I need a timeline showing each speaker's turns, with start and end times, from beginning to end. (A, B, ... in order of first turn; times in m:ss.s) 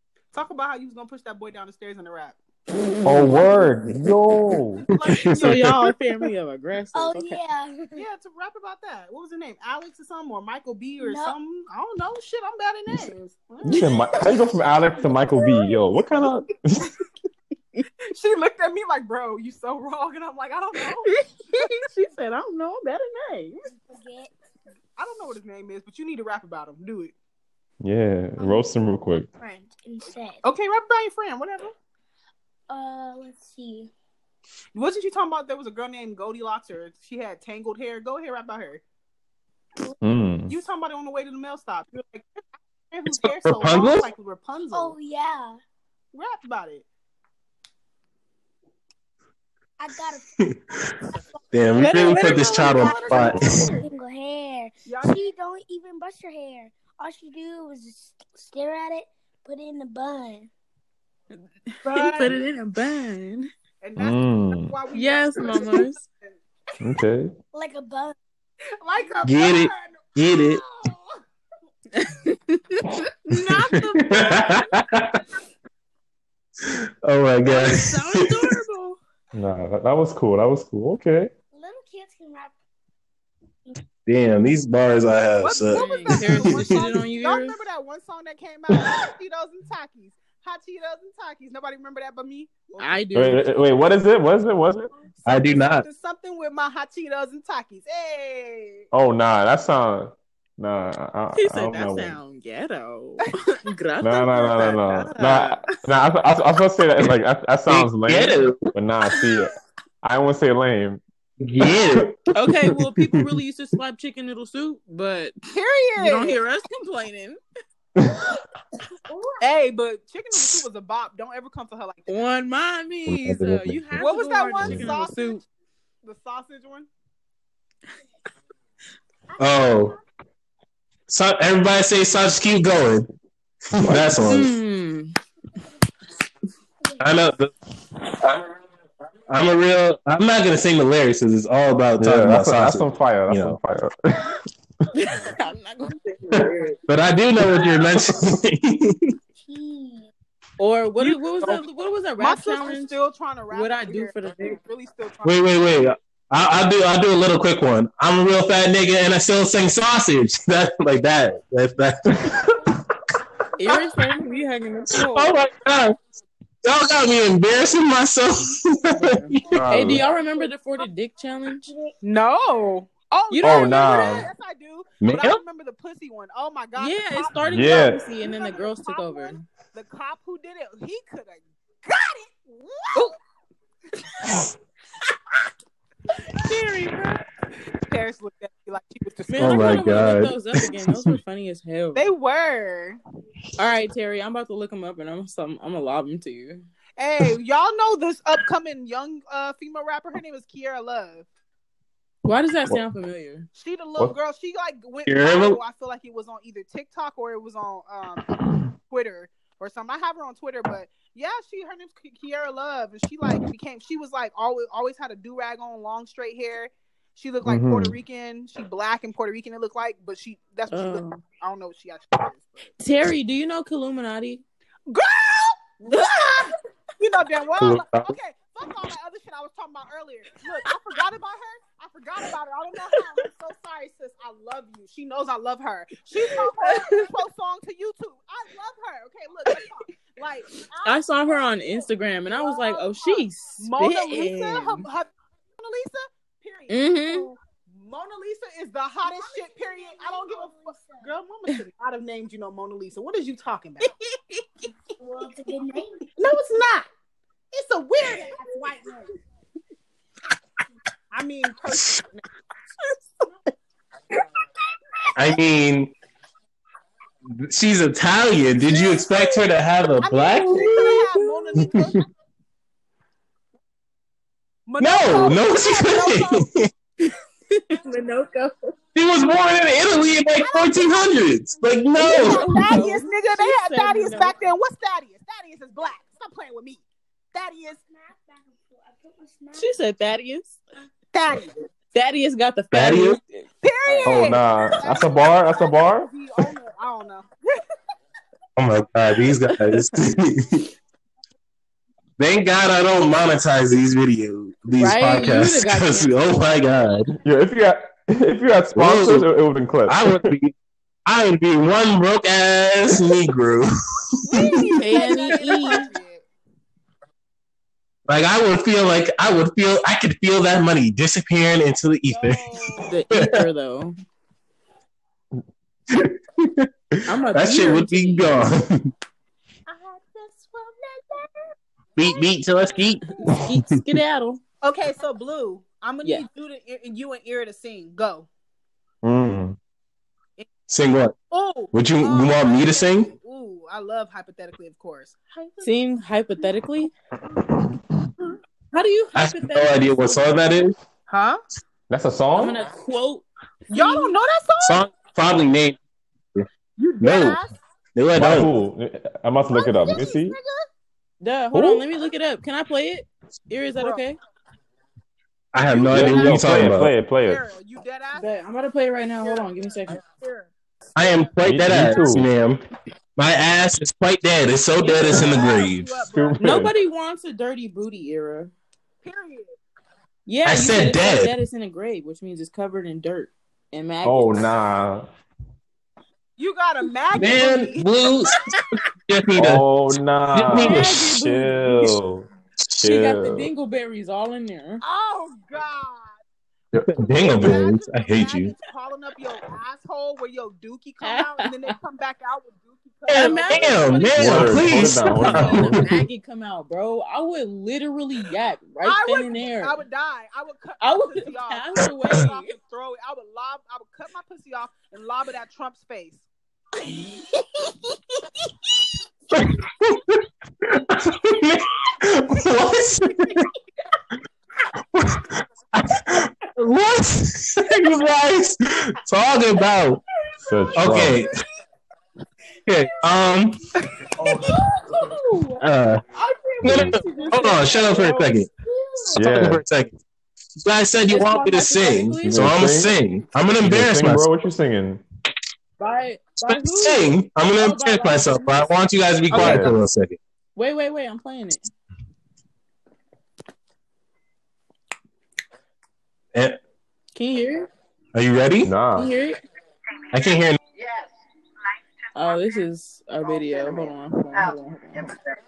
0:00.3-0:02.4 A
0:03.0-0:04.8 B
0:04.8-0:05.7 A
0:05.1-0:05.9 C
0:05.4-0:07.4 D
0:06.9-0:08.0 E
0:08.0-0:14.6 A
0:11.0-0:11.4 E
0:13.6-0:16.9 B
0:18.1-0:21.7 A
0:21.1-0:23.7 D
0:23.7-0:24.3 E
0:25.0-0:27.1 A
0:27.8-0:29.3 B
0:28.4-0:28.6 E
0:29.4-0:30.4 E
0:30.4-0:31.7 A
0:32.7-0:33.9 E
0:34.7-0:38.8 A
0:40.0-0:40.5 B
0:40.5-0:44.9 A
0:43.2-0:44.1 C
0:44.7-0:45.6 E
0:46.1-0:46.8 A
0:49.8-0:50.3 E
0:51.5-0:53.7 C
0:51.7-0:53.8 A
0:51.8-1:00.5 E
0:51.8-0:52.7 D
0:54.9-0:55.2 A
1:01.7-1:03.5 D
1:01.8-1:02.4 A
1:03.8-1:06.4 A
1:04.0-1:04.7 B
1:04.9-1:06.0 D
1:06.8-1:07.3 B
1:07.5-1:08.2 E
1:08.8-1:11.1 A
1:09.2-1:10.6 C
1:11.9-1:13.0 D
1:13.2-1:14.7 A
1:13.9-1:15.2 C
1:17.0-1:18.5 C
1:17.4-1:19.0 D
1:19.3-1:21.3 B
1:21.5-1:22.5 E
1:24.0-1:26.7 C
1:25.4-1:33.0 A
1:25.7-1:27.6 D
1:32.8-1:33.4 D
1:33.1-1:34.9 B
1:35.2-1:35.8 C
1:35.3-1:38.8 A
1:38.9-1:42.2 B
1:41.3-1:45.8 D
1:44.0-1:51.0 B
1:47.7-1:48.6 C
1:51.4-1:52.2 C
1:52.3-1:55.4 D
1:55.5-1:56.4 A
1:56.0-1:57.4 D
1:59.4-2:02.1 A
2:02.1-2:05.4 D
2:03.1-2:03.8 C
2:03.9-2:05.4 A
2:06.0-2:06.9 A
2:09.4-2:10.0 C
2:11.1-2:13.1 C
2:13.7-2:14.6 C
2:13.8-2:14.3 B
2:14.2-2:15.2 D
2:17.0-2:17.5 C
2:19.3-2:23.6 C
2:22.0-2:24.9 B
2:24.9-2:26.8 D
2:26.9-2:29.1 C
2:29.4-2:30.1 E
2:30.6-2:33.0 D
2:32.2-2:35.5 A
2:33.5-2:34.6 D
2:35.2-2:42.2 C
2:43.6-2:45.4 D
2:45.1-2:46.0 C
2:46.6-2:50.0 C
2:48.9-2:51.7 D
2:49.5-2:50.0 B
2:51.6-2:52.0 E
2:52.0-3:03.1 A
2:53.3-2:54.2 D
2:53.4-2:54.3 B
2:55.0-2:55.4 C
2:56.8-2:59.4 D
2:57.5-2:58.0 B
3:06.4-3:07.2 D
3:07.8-3:10.1 A
3:09.3-3:12.1 D
3:09.4-3:10.4 C
3:11.9-3:13.0 A
3:13.6-3:16.6 D
3:17.0-3:21.2 A
3:22.2-3:23.5 D
3:23.6-3:42.7 A
3:25.0-3:25.6 C
3:37.4-3:38.0 B
3:40.7-3:41.2 D
3:42.8-3:44.4 D
3:44.9-4:14.5 A
3:45.9-3:46.4 D
3:47.6-3:48.1 C
3:56.2-3:57.1 D
4:00.8-4:04.8 D
4:06.7-4:07.3 D
4:09.1-4:11.1 E
4:15.0-4:16.2 E
4:16.2-4:16.9 A
4:17.5-4:19.1 A
4:21.1-4:22.2 A
4:25.1-4:25.9 C
4:27.4-4:30.6 C
4:28.7-4:29.4 A
4:30.0-4:32.1 A
4:30.4-4:31.7 D
4:34.6-4:36.5 A
4:34.8-4:36.7 C
4:37.5-4:38.7 D
4:38.9-4:42.5 C
4:40.4-4:41.1 A
4:42.0-4:47.8 A
4:42.1-4:44.4 D
4:47.9-4:49.7 E
4:49.5-4:50.6 D
4:51.1-4:51.6 A
4:51.9-4:54.2 D
4:52.7-4:53.2 C
4:53.6-4:57.6 A
4:54.0-4:56.1 B
4:58.6-5:00.7 C
5:02.2-5:07.1 C
5:04.8-5:06.2 D
5:07.2-5:10.3 B
5:08.7-5:09.3 C
5:09.9-5:10.5 C
5:11.0-5:13.7 C
5:14.2-5:16.2 A
5:14.3-5:14.7 C
5:14.8-5:15.9 D
5:18.1-5:23.4 C
5:22.1-5:22.9 A
5:22.8-5:24.0 D
5:25.9-5:28.9 C
5:27.1-5:28.4 D
5:29.7-5:31.3 A
5:32.0-5:33.8 C
5:33.3-5:34.4 D
5:34.6-5:38.3 A
5:39.0-5:39.6 B
5:40.7-5:41.1 C
5:41.3-5:45.7 A
5:41.7-5:43.1 C
5:45.6-5:46.9 D
5:48.7-5:50.5 D
5:49.1-5:50.8 C
5:51.1-5:51.4 A
5:51.9-5:52.6 B
5:52.3-5:54.2 D
5:53.7-5:54.8 A
5:54.6-5:55.8 C
5:56.8-5:57.5 A
5:57.0-5:57.4 C
5:58.0-5:58.5 C
5:58.2-6:00.4 B
5:59.5-6:00.7 A
6:01.2-6:04.2 D
6:01.5-6:01.9 B
6:03.8-6:04.0 A
6:05.5-6:06.9 C
6:05.7-6:08.3 A
6:05.9-6:07.4 B
6:08.2-6:10.0 D
6:09.2-6:11.3 A
6:11.0-6:12.6 C
6:11.4-6:12.3 B
6:13.2-6:15.9 C
6:14.8-6:16.5 A
6:16.1-6:16.7 B
6:16.4-6:18.5 D
6:19.0-6:19.5 A
6:20.2-6:24.4 D
6:20.4-6:21.3 C
6:24.0-6:25.1 B
6:26.4-6:27.9 A
6:27.1-6:28.4 C
6:29.1-6:29.6 C
6:29.4-6:32.3 B
6:30.3-6:31.0 C
6:30.5-6:32.0 D
6:32.8-6:33.5 B
6:32.8-6:34.8 D
6:34.8-6:36.1 A
6:36.8-6:38.5 C
6:36.9-6:44.7 A
6:41.0-6:41.7 D
6:43.1-6:46.0 C
6:43.1-6:49.8 D
6:44.1-6:45.9 B
6:48.8-6:56.2 A
6:50.8-6:52.6 D
6:59.3-7:03.5 C
7:04.9-7:10.0 C
7:10.4-7:11.2 B
7:10.8-7:11.3 C
7:12.6-7:13.6 C
7:14.3-7:15.6 D
7:15.6-7:16.0 C
7:16.1-7:18.4 D
7:16.6-7:18.5 C
7:19.1-7:19.6 B
7:19.2-7:20.0 C
7:20.6-7:24.3 C
7:21.1-7:22.6 D
7:22.2-7:23.0 B
7:23.6-7:25.0 B
7:25.8-7:28.7 D
7:26.4-7:30.2 C
7:29.3-7:29.6 A
7:29.3-7:29.7 B
7:30.6-7:31.6 D
7:37.1-7:37.7 D
7:38.1-7:38.7 C
7:38.6-7:39.1 B
7:39.0-7:39.4 D
7:40.1-7:40.6 C
7:42.1-7:45.1 D